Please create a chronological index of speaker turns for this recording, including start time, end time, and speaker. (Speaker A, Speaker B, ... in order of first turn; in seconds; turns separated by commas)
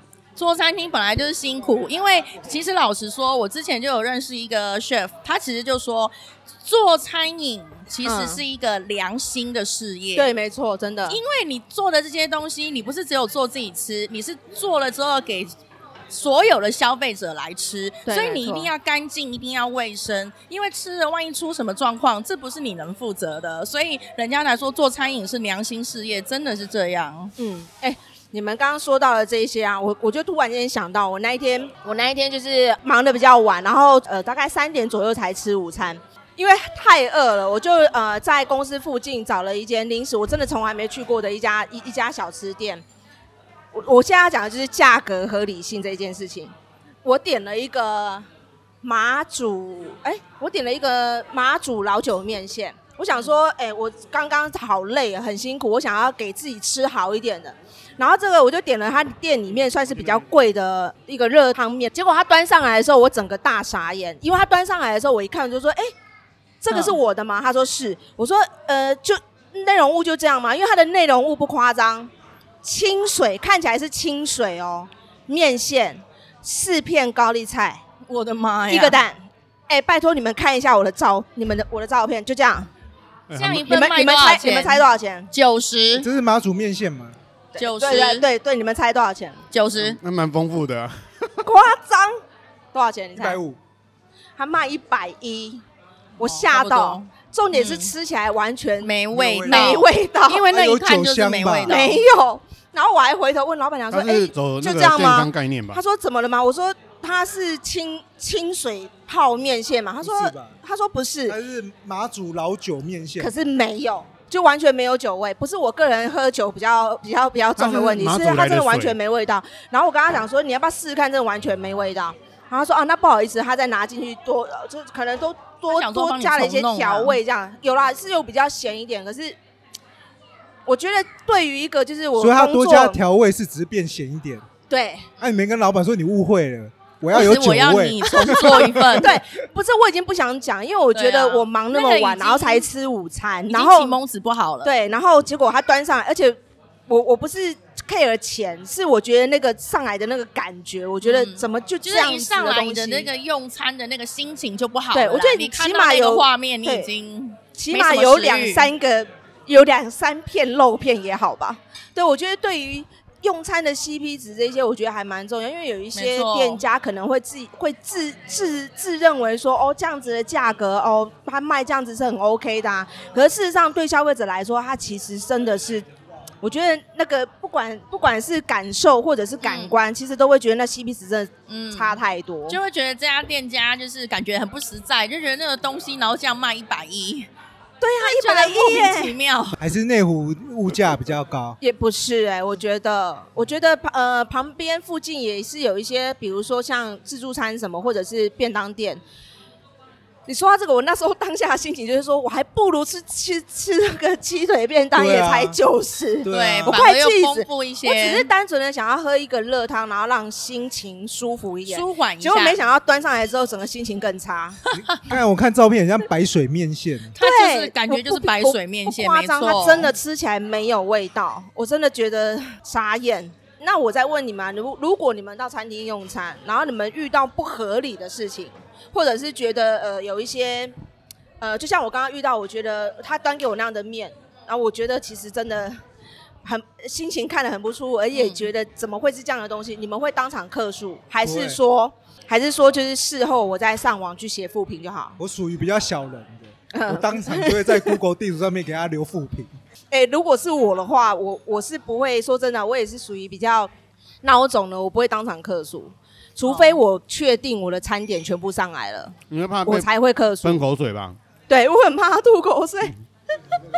Speaker A: 0.3-10.3, Speaker B: 8.0-8.4, Speaker B: 10.2-11.2, Speaker A: 11.1-15.5, Speaker A: 16.1-27.3, Speaker B: 18.1-18.7, Speaker B: 27.4-42.8, Speaker B: 43.7-48.3, Speaker B: 48.8-65.9, Speaker B: 66.6-72.1, Speaker A: 66.7-67.0, Speaker B: 72.6-77.8, Speaker A: 78.1-79.0, Speaker B: 78.7-82.7, Speaker C: 83.3-83.7, Speaker A: 83.3-86.1, Speaker B: 83.6-85.3, Speaker D: 86.0-87.2, Speaker B: 87.5-89.4, Speaker A: 87.6-88.2, Speaker A: 89.5-90.0, Speaker C: 89.8-91.3, Speaker B: 91.4-92.1, Speaker B: 92.7-93.4, Speaker D: 93.2-93.6, Speaker B: 94.4-95.6, Speaker B: 96.2-98.9, Speaker A: 96.2-97.9, Speaker A: 98.8-102.0, Speaker D: 99.1-99.8, Speaker B: 99.5-100.5, Speaker D: 100.4-101.8, Speaker B: 101.7-111.4, Speaker C: 103.9-105.8, Speaker D: 110.0-110.6, Speaker D: 111.3-113.3, Speaker B: 113.2-129.4, Speaker C: 117.6-119.0, Speaker A: 125.7-127.2, Speaker B: 130.7-133.0, Speaker D: 132.2-134.4, Speaker B: 134.7-135.1, Speaker D: 135.2-139.0, Speaker A: 137.1-139.2, Speaker B: 138.2-144.0, Speaker A: 140.9-142.7, Speaker A: 143.5-144.7, Speaker B: 144.6-153.1, Speaker A: 151.0-158.7, Speaker B: 154.9-156.9, Speaker B: 157.5-175.9, Speaker A: 165.9-166.6, Speaker B: 176.4-182.6, Speaker A: 179.4-179.8, Speaker A: 181.5-187.3, Speaker B: 187.8-189.1, Speaker A: 188.0-189.6, Speaker D: 189.6-191.6, Speaker B: 191.6-199.0, Speaker B: 200.3-214.6, Speaker D: 204.9-205.6, Speaker D: 206.2-206.8, Speaker A: 206.3-208.3, Speaker A: 211.7-212.6, Speaker D: 214.7-217.1, Speaker A: 217.1-219.9, Speaker B: 217.2-230.7, Speaker B: 231.4-235.8, Speaker B: 236.4-245.2, Speaker A: 238.1-238.5, Speaker D: 241.2-241.6, Speaker D: 245.2-249.5, Speaker B: 246.7-248.0, Speaker B: 249.9-253.7, Speaker B: 254.2-260.6, Speaker A: 256.4-256.8, Speaker C: 259.3-259.9, Speaker C: 260.4-261.2, Speaker B: 261.5-262.9